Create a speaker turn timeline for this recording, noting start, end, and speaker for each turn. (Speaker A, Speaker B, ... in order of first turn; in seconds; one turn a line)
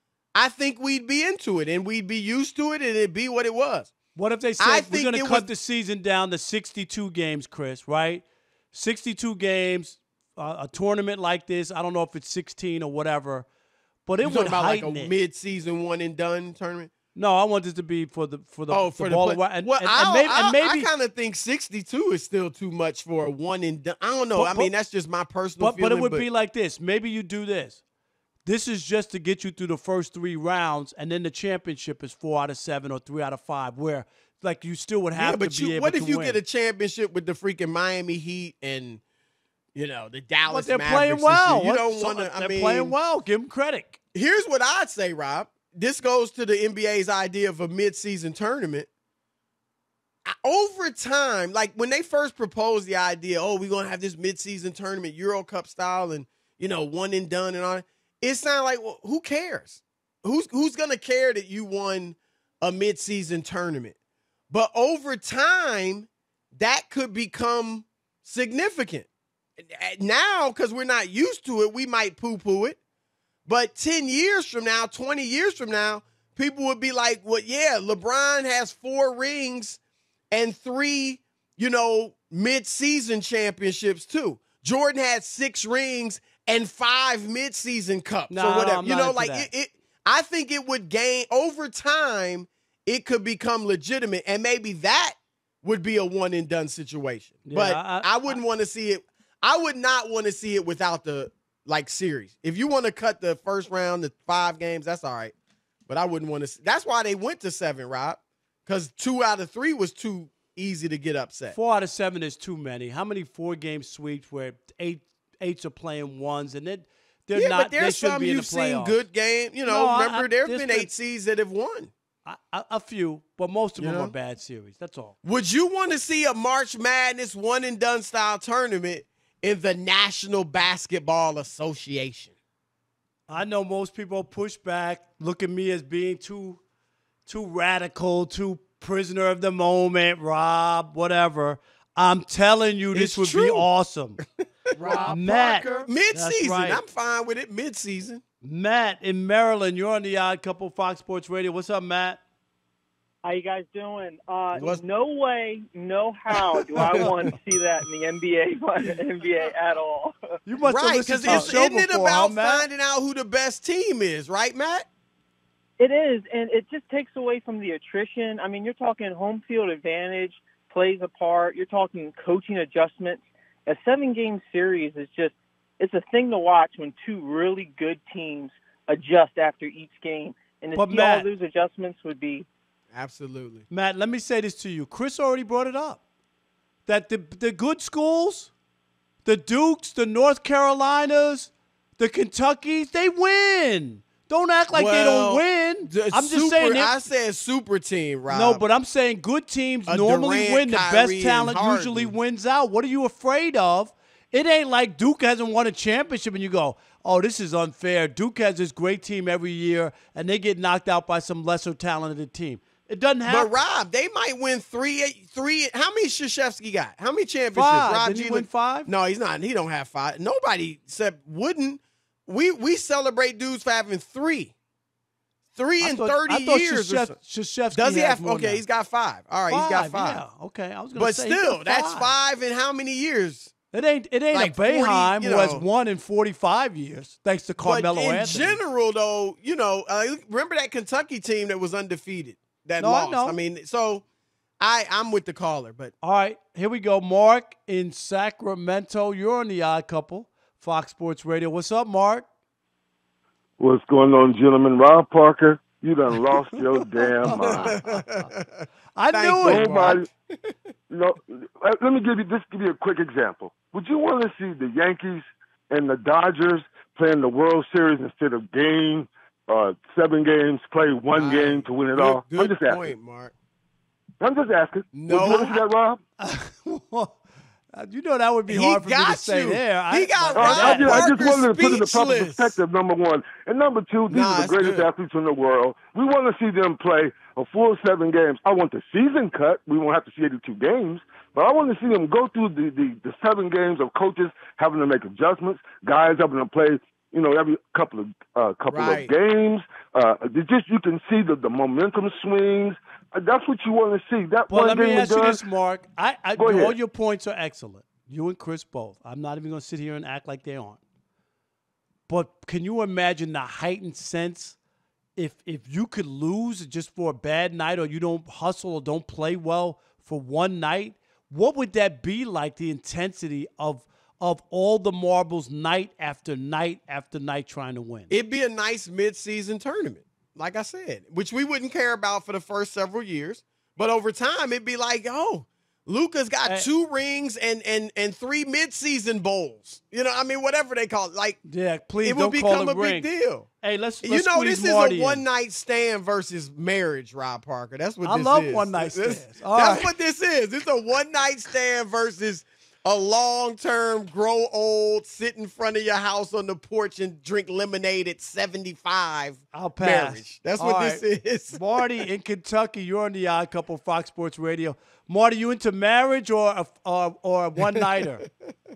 Speaker A: 0.3-3.9
Speaker B: 4.2-13.5
Speaker A: 4.6-5.5
Speaker B: 14.1-15.1
Speaker A: 14.2-16.9
Speaker B: 17.1-20.9
Speaker A: 18.7-26.3
Speaker B: 24.3-24.7
Speaker B: 25.6-27.8
Speaker B: 28.5-36.4
Speaker A: 35.1-39.0
Speaker A: 39.8-43.0
Speaker B: 40.5-44.0
Speaker A: 44.1-48.9
Speaker A: 50.3-64.0
Speaker A: 64.5-69.1
Speaker A: 69.6-72.8
Speaker A: 73.5-79.8
Speaker A: 80.3-105.3
Speaker B: 88.3-89.5
Speaker B: 97.5-98.4
Speaker A: 105.9-111.6
Speaker B: 111.5-119.0
Speaker A: 117.3-121.9
Speaker B: 119.7-120.9
Speaker B: 122.3-125.2
Speaker A: 123.8-124.1
Speaker A: 125.2-132.3
Speaker B: 133.3-136.6
Speaker B: 137.3-144.2
Speaker A: 142.9-143.7
Speaker A: 144.7-148.2
Speaker B: 144.8-146.8
Speaker C: 144.8-145.1
Speaker B: 148.4-152.2
Speaker C: 153.2-160.4
Speaker A: 154.6-154.8
Speaker A: 156.9-157.1
Speaker B: 160.5-162.7
Speaker A: 160.7-164.9
Speaker C: 165.8-182.5
Speaker B: 180.8-181.3
Speaker A: 182.9-183.7
Speaker B: 183.7-186.0
Speaker B: 186.9-188.5
Speaker B: 189.2-197.0
Speaker A: 194.7-198.6
Speaker B: 198.3-213.5
Speaker A: 199.9-202.2
Speaker A: 213.3-224.6
Speaker B: 217.5-218.9
Speaker A: 225.6-227.1
Speaker B: 225.8-228.6
Speaker A: 227.7-230.2
Speaker B: 229.5-232.1
Speaker A: 230.9-233.5
Speaker B: 233.7-238.6
Speaker A: 234.3-235.6
Speaker A: 237.6-244.0
Speaker B: 242.8-243.4
Speaker A: 244.6-245.9
Speaker B: 246.0-252.3
Speaker D: 253.6-257.7
Speaker B: 256.3-258.3
Speaker A: 257.4-260.5
Speaker B: 259.0-260.0
Speaker D: 259.4-260.1
Speaker D: 260.9-272.9
Speaker A: 271.1-273.4
Speaker D: 274.2-276.0
Speaker A: 274.9-275.6
Speaker B: 276.2-277.2
Speaker B: 277.7-281.2
Speaker A: 278.5-282.6
Speaker D: 280.4-305.4
Speaker A: 284.1-284.9
Speaker A: 298.7-299.1
Speaker B: 304.5-310.8
Speaker D: 306.4-306.8
Speaker B: 312.1-314.6
Speaker B: 315.2-328.1
Speaker A: 328.1-341.4
Speaker B: 341.4-343.1
Speaker A: 342.0-343.5
Speaker B: 343.6-345.2
Speaker A: 344.0-361.6
Speaker B: 348.0-349.9
Speaker B: 359.5-368.2